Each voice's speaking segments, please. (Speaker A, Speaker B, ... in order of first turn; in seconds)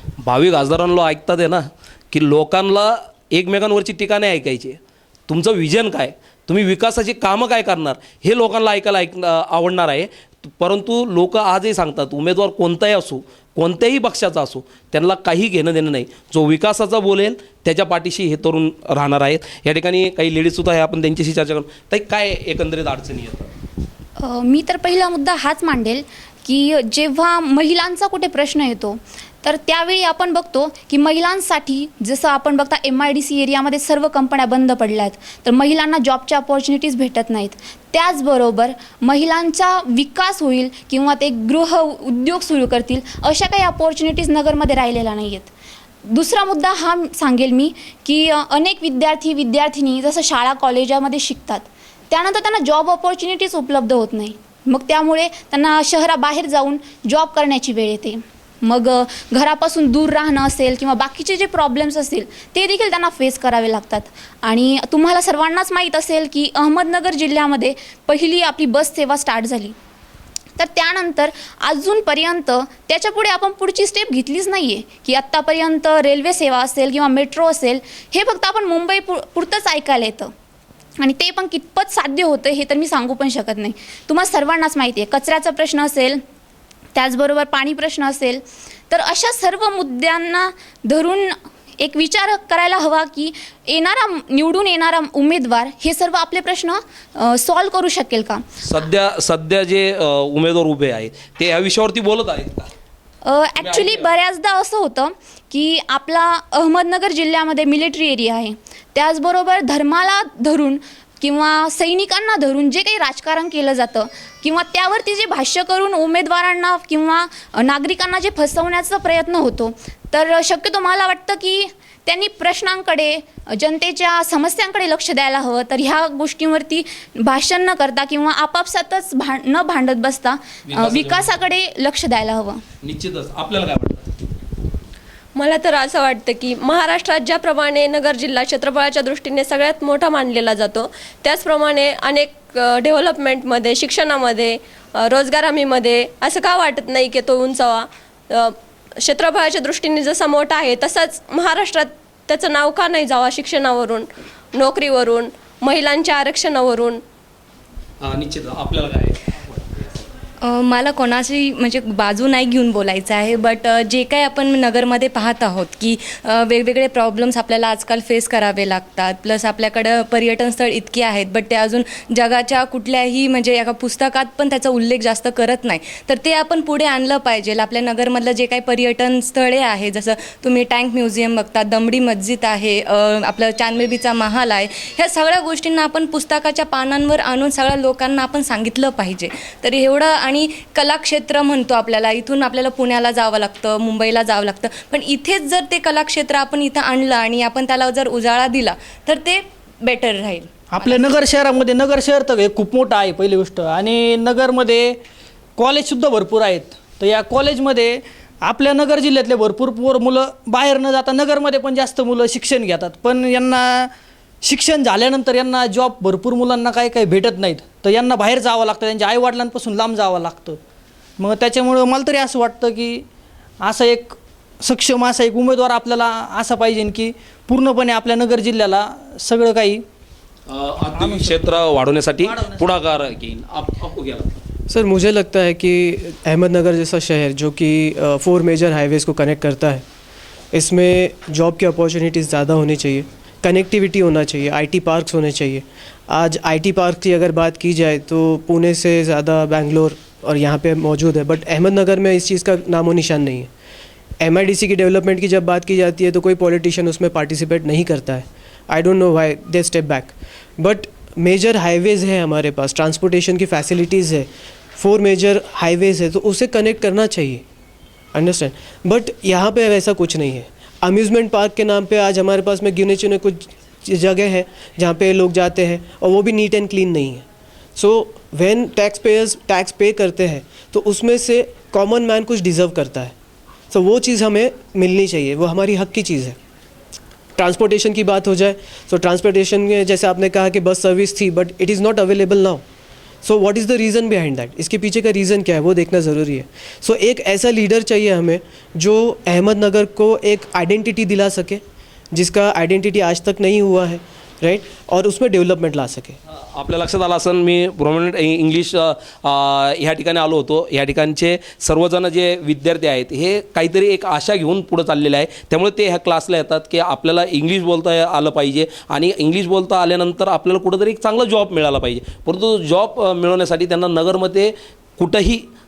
Speaker A: 0.2-23.5, 98.6-102.7, 103.6-104.1, 130.7-131.4, 132.8-134.1, 158.0-160.0, 230.5-234.3, 306.3-325.5
Speaker B: 24.2-45.5, 46.0-69.7, 70.5-80.3, 81.0-86.2, 86.9-98.4, 103.2-132.6
Speaker C: 135.3-157.0
Speaker D: 160.4-201.0
Speaker E: 200.7-205.0, 205.6-213.9, 214.4-220.6, 221.2-223.0, 223.6-229.8, 230.9-231.6, 232.2-232.7
Speaker F: 234.7-239.8, 240.5-253.5, 254.2-267.4, 268.1-277.2, 277.8-283.1, 283.7-286.4, 287.4-292.6, 293.2-306.2